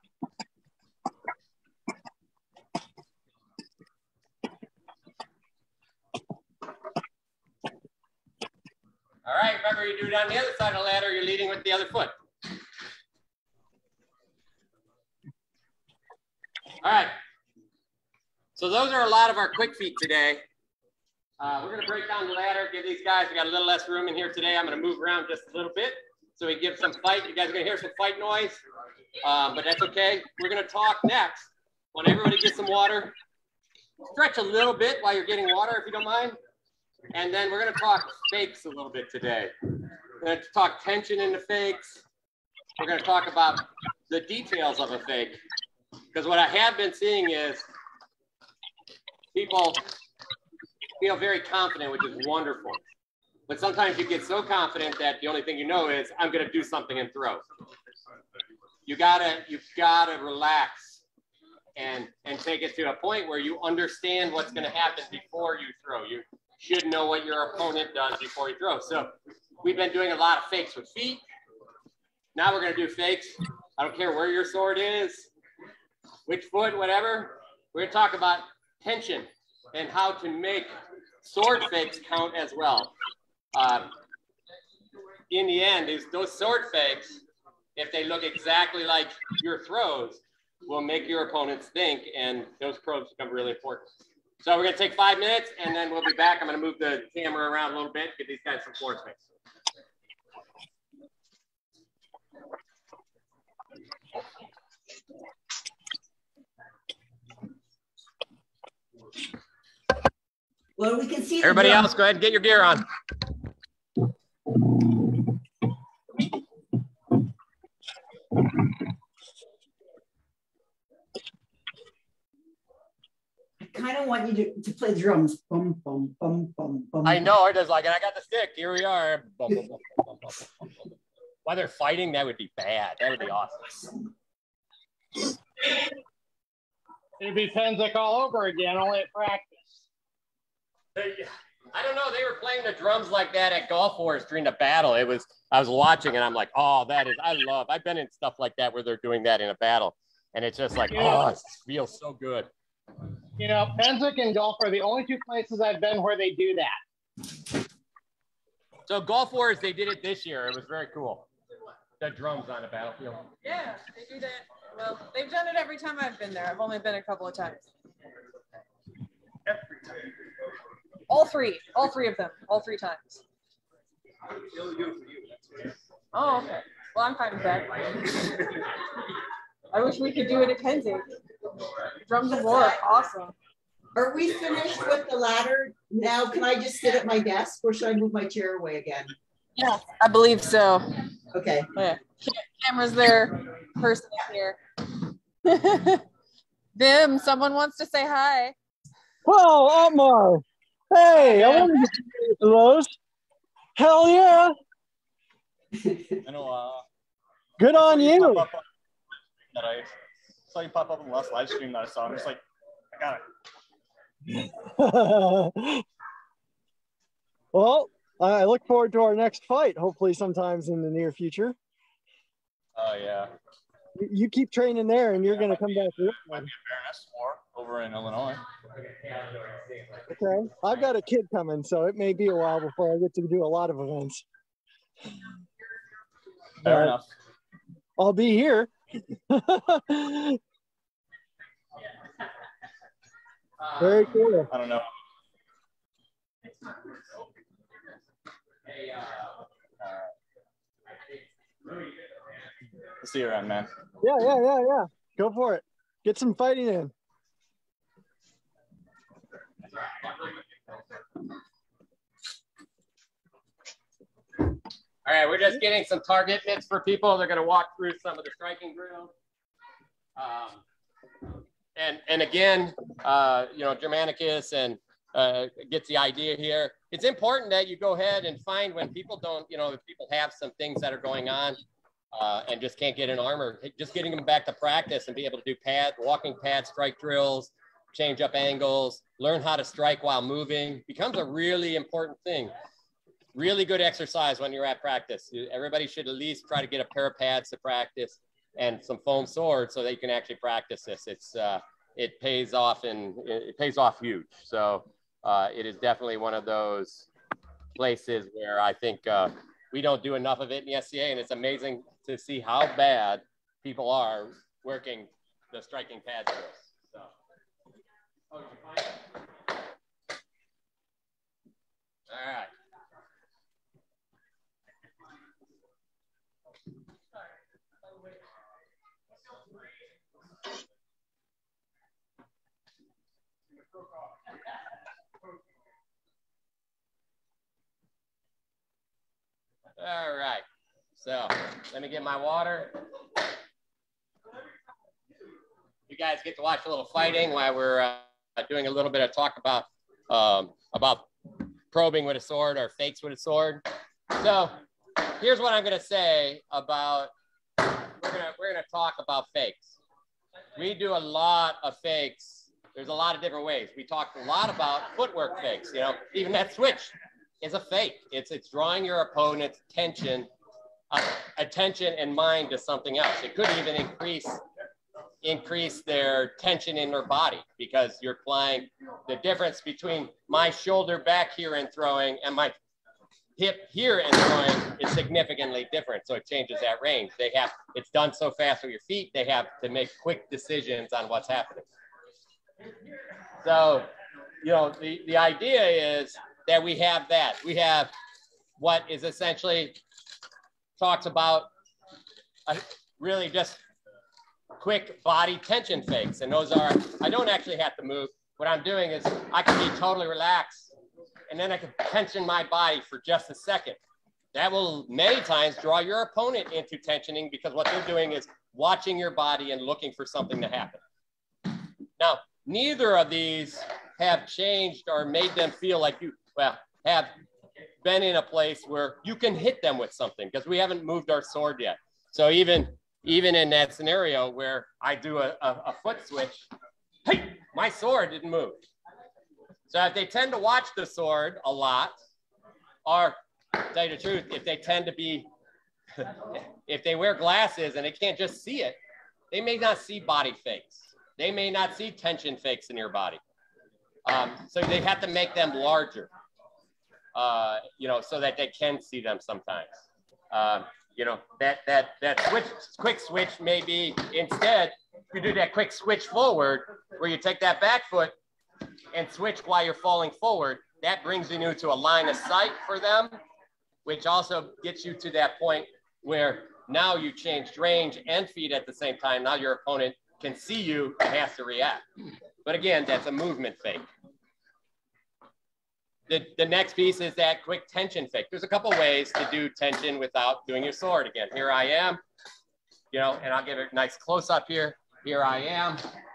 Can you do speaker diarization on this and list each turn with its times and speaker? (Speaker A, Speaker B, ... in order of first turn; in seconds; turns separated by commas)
Speaker A: 9.2-12.1, Speaker A: 16.8-17.1, Speaker A: 18.6-20.4, Speaker A: 21.4-28.6, Speaker A: 29.2-33.2, Speaker A: 34.1-36.4, Speaker A: 37.1-39.5, Speaker A: 40.2-42.0, Speaker A: 42.8-45.4, Speaker A: 46.1-47.7, Speaker A: 49.3-49.8, Speaker A: 51.0-52.8, Speaker A: 53.5-57.4, Speaker A: 58.9-61.0, Speaker A: 61.8-71.2, Speaker A: 72.3-75.3, Speaker A: 76.3-82.9, Speaker A: 83.5-83.9, Speaker A: 85.3-87.2, Speaker A: 87.8-93.9, Speaker A: 94.4-99.2, Speaker B: 110.8-111.9, Speaker A: 111.4-112.8, Speaker B: 123.6-127.3, Speaker A: 127.0-130.8, Speaker A: 131.4-133.9, Speaker C: 137.2-139.7, Speaker A: 141.0-152.5, Speaker C: 150.9-151.3, Speaker C: 153.4-156.8, Speaker A: 158.9-161.3, Speaker A: 162.0-163.2, Speaker D: 163.4-167.7, Speaker D: 171.1-173.2, Speaker A: 174.6-175.2, Speaker D: 176.1-178.6, Speaker D: 179.7-181.1, Speaker D: 182.0-183.3, Speaker B: 182.3-182.8, Speaker B: 183.9-189.2, Speaker D: 189.6-191.0, Speaker B: 191.3-191.7, Speaker D: 191.8-194.6, Speaker D: 195.4-196.1, Speaker D: 196.8-198.6, Speaker E: 199.2-202.9, Speaker D: 201.2-201.8, Speaker E: 203.8-204.5, Speaker B: 205.7-206.2, Speaker F: 206.2-206.8, Speaker E: 207.6-208.5, Speaker F: 207.7-208.7, Speaker F: 209.5-212.4, Speaker F: 212.9-213.2, Speaker E: 214.3-215.8, Speaker E: 217.5-221.6, Speaker F: 222.8-223.3, Speaker E: 224.0-226.5, Speaker F: 225.3-228.4, Speaker A: 228.7-230.9, Speaker E: 230.1-234.2, Speaker F: 236.6-237.1, Speaker E: 236.6-237.0, Speaker E: 238.0-240.4, Speaker A: 243.6-244.1, Speaker E: 243.8-244.5, Speaker F: 244.5-244.9, Speaker A: 246.5-247.2, Speaker A: 248.7-249.4, Speaker F: 249.8-250.1, Speaker A: 251.1-252.2, Speaker F: 253.0-253.7, Speaker E: 254.0-256.9, Speaker A: 259.7-260.4, Speaker A: 265.1-269.1, Speaker A: 270.2-270.6, Speaker A: 271.8-281.6, Speaker A: 282.1-292.5, Speaker A: 293.4-307.1, Speaker A: 307.8-317.1, Speaker A: 318.3-318.8, Speaker A: 322.1-322.5, Speaker A: 339.8-340.4, Speaker A: 341.0-342.8, Speaker A: 345.9-351.1, Speaker A: 351.7-354.6, Speaker A: 355.1-357.1, Speaker A: 358.0-359.8, Speaker A: 360.6-370.3, Speaker A: 370.9-374.4, Speaker A: 375.2-382.6, Speaker A: 383.4-391.7, Speaker A: 393.4-393.9, Speaker A: 394.4-397.9, Speaker A: 398.6-399.8, Speaker A: 400.8-401.5, Speaker A: 402.5-403.6, Speaker A: 404.6-410.7, Speaker A: 411.3-413.8, Speaker A: 414.3-420.8, Speaker A: 422.0-427.1, Speaker A: 427.8-436.5, Speaker A: 437.1-438.6, Speaker A: 439.7-442.0, Speaker A: 442.9-445.3, Speaker A: 446.0-448.8, Speaker A: 449.3-453.2, Speaker A: 454.1-456.1, Speaker A: 457.1-468.1, Speaker A: 468.9-473.2, Speaker A: 473.9-481.8, Speaker A: 482.4-483.9, Speaker A: 486.1-492.0, Speaker A: 492.9-495.8